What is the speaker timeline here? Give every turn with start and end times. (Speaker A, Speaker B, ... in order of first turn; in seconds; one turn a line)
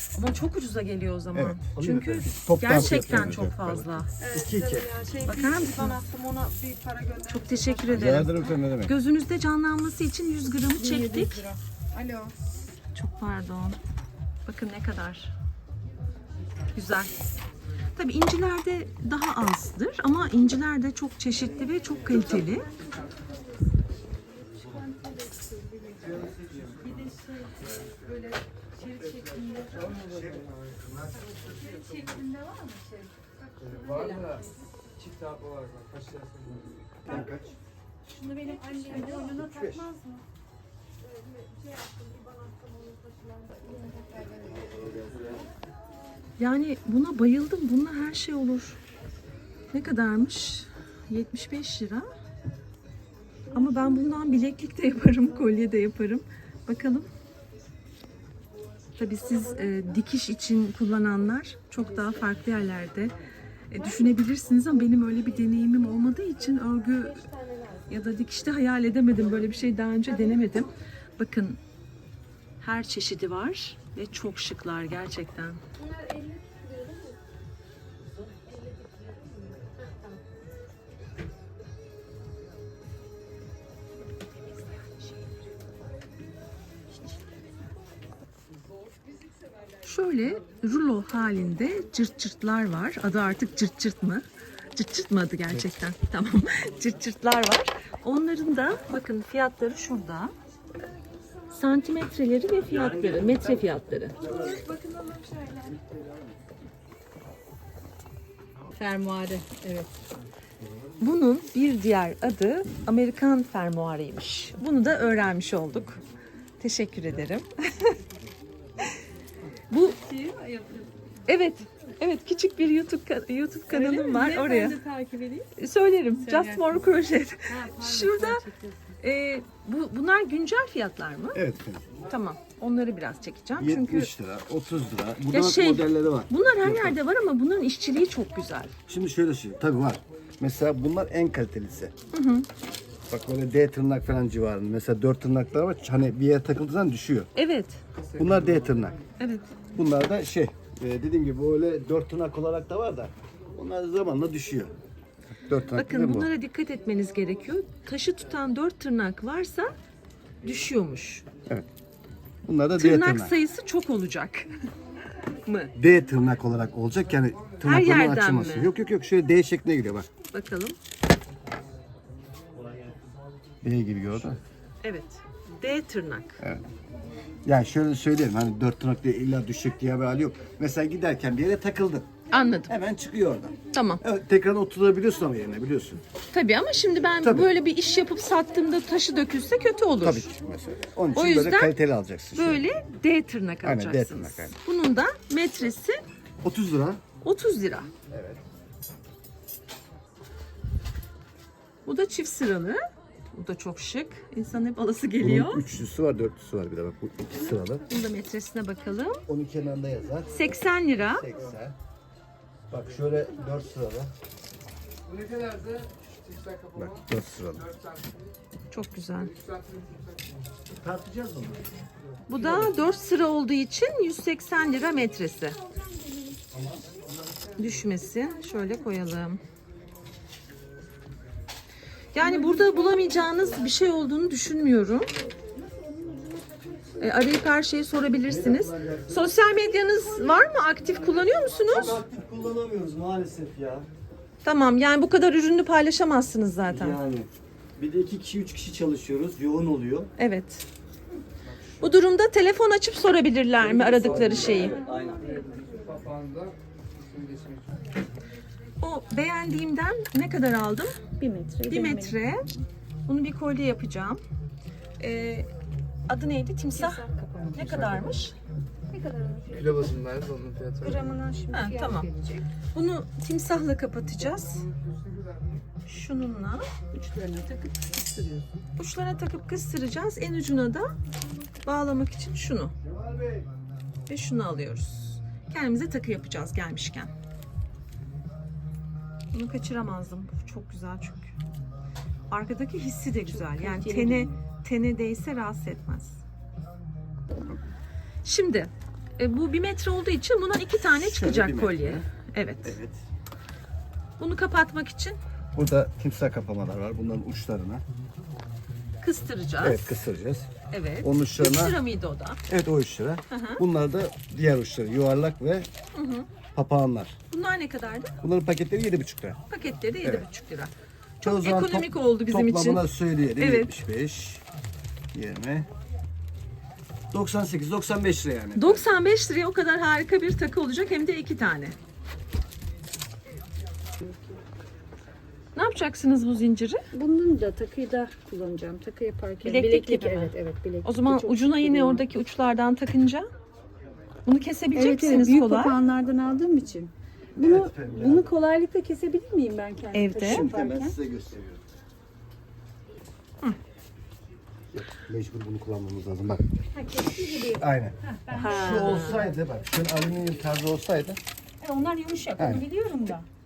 Speaker A: 0.1-4.1
Speaker B: 1.3-4.9
Speaker C: 4.2-8.3
Speaker A: 5.2-6.0
Speaker A: 7.3-11.4
Speaker B: 7.9-8.9
Speaker C: 10.8-12.3
Speaker A: 12.9-13.8
Speaker A: 14.4-15.3
Speaker A: 16.7-17.1
Speaker A: 17.9-22.7
Speaker B: 21.8-22.6
Speaker D: 22.1-23.8
Speaker D: 24.4-26.4
Speaker B: 25.9-27.2
Speaker C: 26.9-27.3
Speaker D: 26.9-27.8
Speaker C: 28.0-29.8
Speaker D: 28.8-29.9
Speaker E: 29.6-31.0
Speaker B: 29.9-31.8
Speaker D: 31.3-34.6
Speaker E: 33.6-37.0
Speaker B: 37.0-37.5
Speaker D: 38.1-40.2
Speaker C: 38.3-39.3
Speaker B: 38.9-39.9
Speaker D: 43.3-44.6
Speaker B: 44.5-45.4
Speaker A: 46.4-48.8
Speaker A: 49.7-52.1
Speaker A: 53.5-57.1
Speaker A: 59.0-63.1
Speaker D: 59.4-59.9
Speaker A: 63.7-67.2
Speaker D: 63.8-64.1
Speaker D: 66.9-67.9
Speaker A: 67.9-71.6
Speaker A: 72.6-75.6
Speaker D: 75.8-77.2
Speaker D: 78.3-80.2
Speaker D: 84.4-85.4
Speaker A: 89.8-100.3
Speaker A: 101.5-104.2
Speaker B: 102.7-103.6
Speaker F: 102.8-103.6
Speaker B: 104.1-104.6
Speaker D: 104.2-105.7
Speaker C: 104.2-104.7
Speaker B: 105.8-106.3
Speaker D: 108.8-109.9
Speaker A: 111.0-116.0
Speaker A: 116.6-117.9
Speaker A: 119.7-120.0
Speaker D: 120.0-121.0
Speaker A: 121.3-124.8
Speaker D: 123.7-125.5
Speaker A: 125.5-128.4
Speaker D: 126.2-128.9
Speaker A: 129.0-131.4
Speaker B: 131.3-131.9
Speaker A: 132.1-134.1
Speaker B: 133.6-137.0
Speaker A: 135.3-138.7
Speaker B: 138.9-141.9
Speaker A: 142.1-142.4
Speaker B: 143.1-147.3
Speaker A: 147.3-147.8
Speaker E: 147.9-148.9
Speaker B: 148.2-149.0
Speaker A: 149.2-149.5
Speaker B: 149.7-154.7
Speaker B: 155.3-156.3
Speaker A: 155.7-159.7
Speaker A: 160.4-161.2
Speaker B: 162.4-163.3
Speaker A: 162.8-164.5
Speaker A: 165.4-165.7
Speaker B: 165.7-170.1
Speaker A: 167.6-168.7
Speaker A: 170.3-170.8
Speaker B: 173.6-174.4
Speaker A: 174.8-176.4
Speaker B: 176.4-176.6
Speaker B: 177.4-182.1
Speaker A: 182.3-182.7
Speaker B: 182.7-186.0
Speaker A: 183.7-184.0
Speaker A: 186.3-190.3
Speaker B: 187.2-187.5
Speaker B: 190.0-192.6
Speaker A: 191.1-191.7
Speaker A: 192.3-196.0
Speaker B: 193.6-194.5
Speaker B: 196.4-197.0
Speaker A: 197.2-197.9
Speaker B: 198.1-198.4
Speaker A: 201.8-202.8
Speaker A: 203.3-205.6
Speaker B: 205.2-207.8
Speaker A: 207.9-209.2
Speaker B: 209.3-211.8
Speaker A: 210.3-211.3
Speaker B: 212.7-214.1
Speaker E: 215.0-218.3
Speaker B: 216.8-217.7
Speaker A: 218.7-219.3
Speaker E: 219.1-220.5
Speaker B: 220.8-221.7
Speaker A: 222.3-225.6
Speaker E: 222.3-222.9
Speaker D: 225.9-226.3
Speaker B: 226.5-227.0
Speaker A: 227.6-229.4
Speaker A: 232.1-235.1
Speaker D: 232.2-233.6
Speaker D: 235.2-237.1
Speaker A: 237.0-242.0
Speaker F: 238.3-239.3
Speaker B: 238.5-239.2
Speaker D: 239.5-240.5
Speaker F: 241.7-243.9
Speaker A: 244.4-247.0
Speaker F: 246.7-250.1
Speaker A: 250.2-250.7
Speaker E: 251.4-251.9
Speaker A: 251.8-254.8
Speaker E: 253.8-258.0
Speaker B: 253.9-254.8
Speaker F: 254.0-254.3
Speaker D: 254.4-255.5
Speaker A: 258.8-261.0
Speaker D: 261.2-262.1
Speaker A: 261.7-262.5
Speaker A: 263.1-264.2
Speaker A: 265.0-265.5
Speaker A: 266.1-268.3
Speaker D: 266.7-268.2
Speaker D: 268.9-269.9
Speaker E: 269.5-271.2
Speaker D: 270.8-272.5
Speaker A: 271.5-272.0
Speaker A: 272.7-274.6
Speaker E: 274.2-275.6
Speaker A: 275.9-276.7
Speaker D: 276.9-278.5
Speaker A: 278.8-280.9
Speaker A: 281.6-282.7
Speaker B: 282.8-283.5
Speaker A: 284.1-287.1
Speaker A: 289.3-291.3
Speaker A: 292.3-296.2
Speaker D: 293.3-294.3
Speaker A: 298.2-302.8
Speaker B: 300.9-302.1
Speaker B: 302.6-303.0
Speaker A: 304.2-305.2
Speaker B: 305.5-307.8
Speaker A: 309.0-309.9
Speaker B: 309.6-310.5
Speaker A: 310.7-312.4
Speaker B: 311.0-311.8
Speaker B: 312.5-315.7
Speaker A: 313.3-313.6
Speaker A: 315.9-316.3
Speaker B: 316.5-317.2
Speaker A: 317.3-318.1
Speaker B: 318.2-319.4
Speaker A: 319.5-323.7
Speaker B: 321.2-324.4
Speaker B: 325.1-325.7
Speaker B: 327.1-328.9
Speaker A: 328.6-331.8
Speaker D: 334.0-334.4
Speaker A: 335.5-336.8
Speaker D: 336.9-342.1
Speaker A: 339.4-340.3
Speaker A: 340.8-343.3
Speaker A: 344.2-345.8
Speaker D: 344.7-351.0
Speaker B: 347.4-348.3
Speaker A: 349.9-350.5
Speaker B: 350.2-351.6
Speaker B: 354.7-356.5
Speaker D: 356.7-359.7
Speaker B: 357.2-361.2
Speaker A: 358.4-359.2
Speaker D: 361.6-363.3
Speaker B: 362.4-362.6